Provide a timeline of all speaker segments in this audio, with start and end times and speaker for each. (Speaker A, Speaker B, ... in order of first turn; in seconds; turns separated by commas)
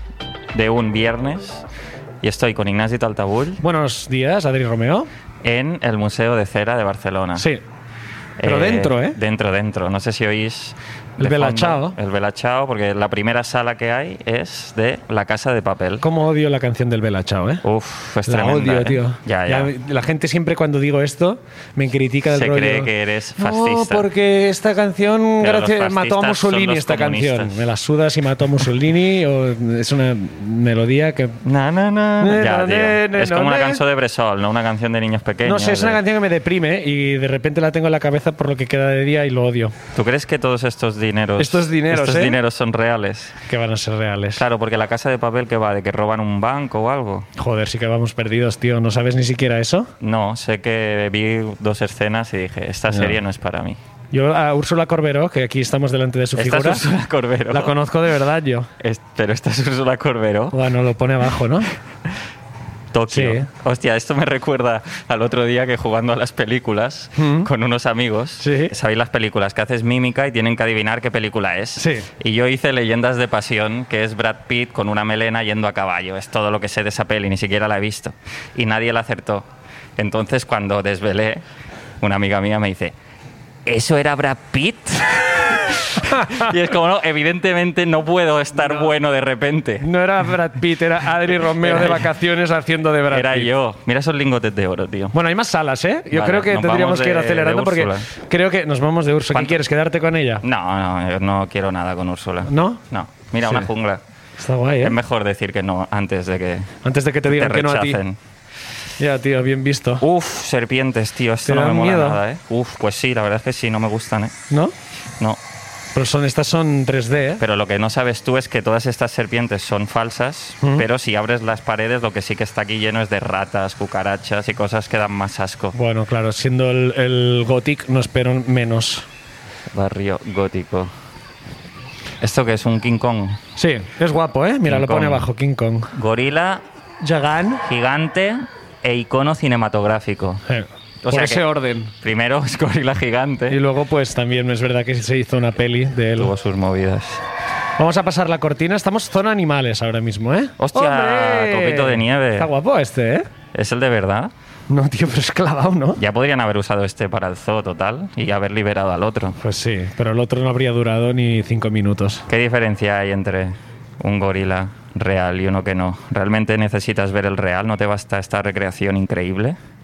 Speaker A: 0.5-1.6, Speaker A: 2.2-3.6, Speaker B: 3.6-5.1, Speaker A: 5.4-7.5, Speaker B: 7.4-7.6, Speaker A: 8.4-16.0, Speaker B: 8.4-9.2, Speaker B: 11.2-11.9, Speaker B: 16.0-17.6, Speaker A: 17.6-19.7, Speaker B: 18.3-31.4, Speaker A: 22.3-24.1, Speaker A: 25.4-27.7, Speaker A: 31.4-36.0, Speaker B: 32.2-33.8, Speaker B: 35.5-39.8, Speaker A: 40.0-43.4, Speaker B: 41.4-42.4, Speaker B: 43.5-44.4, Speaker A: 44.4-47.3, Speaker B: 47.4-49.9, Speaker A: 50.0-53.8, Speaker B: 52.9-53.2, Speaker B: 54.1-56.9, Speaker A: 56.4-57.7, Speaker B: 57.5-58.7, Speaker A: 58.8-60.6, Speaker B: 60.5-61.7, Speaker A: 62.9-79.5, Speaker B: 63.1-63.5, Speaker B: 67.2-67.5, Speaker B: 68.4-68.7, Speaker B: 71.8-72.1, Speaker A: 80.0-81.4, Speaker A: 82.0-83.0, Speaker A: 83.7-89.9, Speaker B: 86.1-86.5, Speaker B: 89.8-93.5, Speaker A: 91.5-92.1, Speaker A: 93.1-95.1, Speaker B: 95.1-100.4, Speaker A: 96.1-98.1, Speaker A: 99.3-99.6, Speaker A: 100.4-104.0, Speaker B: 102.5-102.8, Speaker B: 104.4-105.0, Speaker A: 104.8-106.7, Speaker B: 106.8-108.0, Speaker A: 107.3-108.2, Speaker B: 109.0-110.0, Speaker A: 110.0-114.3, Speaker B: 111.5-112.2, Speaker B: 116.0-117.4, Speaker A: 117.4-125.8, Speaker B: 125.7-129.1, Speaker A: 129.7-130.9, Speaker A: 132.2-133.4, Speaker B: 133.6-135.9, Speaker A: 134.7-135.3, Speaker A: 135.9-136.6, Speaker B: 137.0-137.7, Speaker A: 137.6-140.4, Speaker B: 140.4-141.9, Speaker A: 141.0-141.4, Speaker A: 142.0-143.6, Speaker B: 143.5-146.3, Speaker A: 146.2-147.2, Speaker B: 147.8-153.3, Speaker A: 150.6-152.5, Speaker A: 153.5-154.3, Speaker B: 154.7-156.0, Speaker A: 156.0-159.4, Speaker B: 159.4-162.3, Speaker A: 162.3-169.6